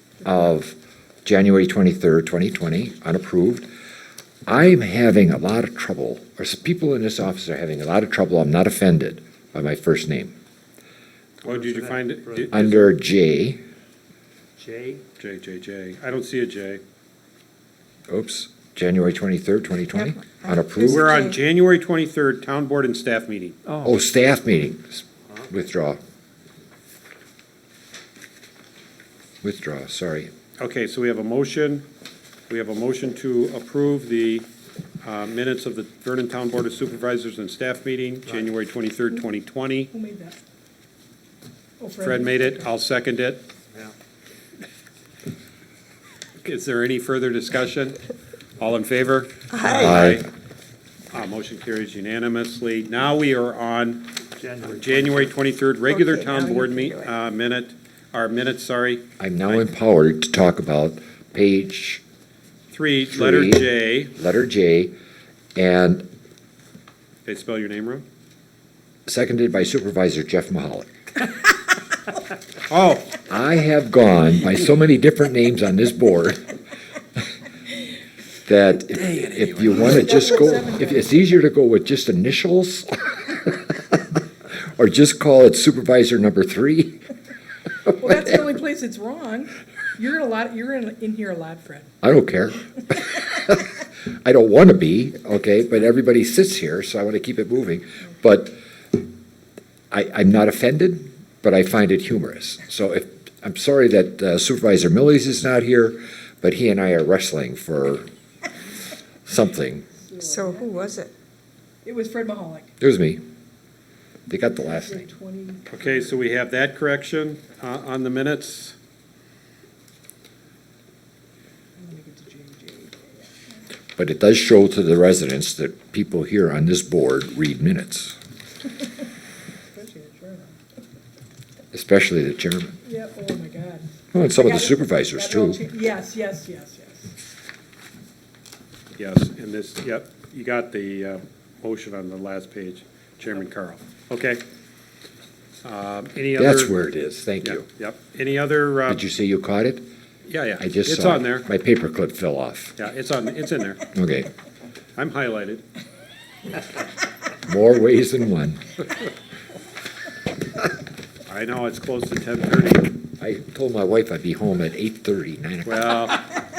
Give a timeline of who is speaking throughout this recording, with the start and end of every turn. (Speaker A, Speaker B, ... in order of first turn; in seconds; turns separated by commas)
Speaker A: 0.2-3.7, Speaker A: 4.5-10.3, Speaker B: 11.4-12.9, Speaker C: 11.4-12.7, Speaker A: 12.5-13.6, Speaker C: 14.6-15.0, Speaker B: 15.2-16.8, Speaker A: 18.1-21.2, Speaker D: 20.2-21.4, Speaker B: 20.8-23.7, Speaker A: 23.8-26.0, Speaker A: 29.4-30.3, Speaker B: 30.6-31.8, Speaker B: 32.5-34.5, Speaker B: 35.0-39.9, Speaker E: 39.9-40.4, Speaker E: 41.8-42.6, Speaker B: 42.0-43.5, Speaker B: 46.4-48.0, Speaker B: 48.6-50.3, Speaker D: 49.5-50.1, Speaker A: 49.7-50.2, Speaker B: 51.1-59.7, Speaker C: 54.3-55.3, Speaker D: 55.9-57.1, Speaker A: 59.2-62.0, Speaker B: 62.7-64.1, Speaker A: 63.1-64.9, Speaker A: 65.6-66.1, Speaker B: 67.2-68.0, Speaker A: 69.1-70.9, Speaker B: 72.7-73.1, Speaker A: 73.2-76.5, Speaker A: 78.5-83.6, Speaker E: 79.9-81.1, Speaker A: 84.6-87.0, Speaker E: 88.0-91.9, Speaker A: 92.0-99.0, Speaker A: 99.9-108.1, Speaker A: 109.2-109.9, Speaker E: 110.0-110.8, Speaker D: 110.2-111.1, Speaker E: 111.8-112.7, Speaker A: 112.8-113.2, Speaker A: 114.3-115.1, Speaker E: 114.7-115.7, Speaker B: 115.7-118.8, Speaker E: 121.8-123.1, Speaker A: 124.0-128.2, Speaker E: 129.7-130.6, Speaker A: 131.7-132.8, Speaker E: 132.8-137.1, Speaker A: 134.1-135.6, Speaker B: 139.0-144.4, Speaker B: 145.6-146.7, Speaker A: 146.3-147.6, Speaker B: 147.4-149.0, Speaker A: 148.9-149.8, Speaker B: 150.3-151.5, Speaker A: 150.6-152.8, Speaker B: 152.8-153.8, Speaker A: 153.9-154.3, Speaker B: 155.0-155.6, Speaker A: 157.4-158.6, Speaker B: 161.3-163.0, Speaker A: 163.2-165.9, Speaker B: 165.6-166.2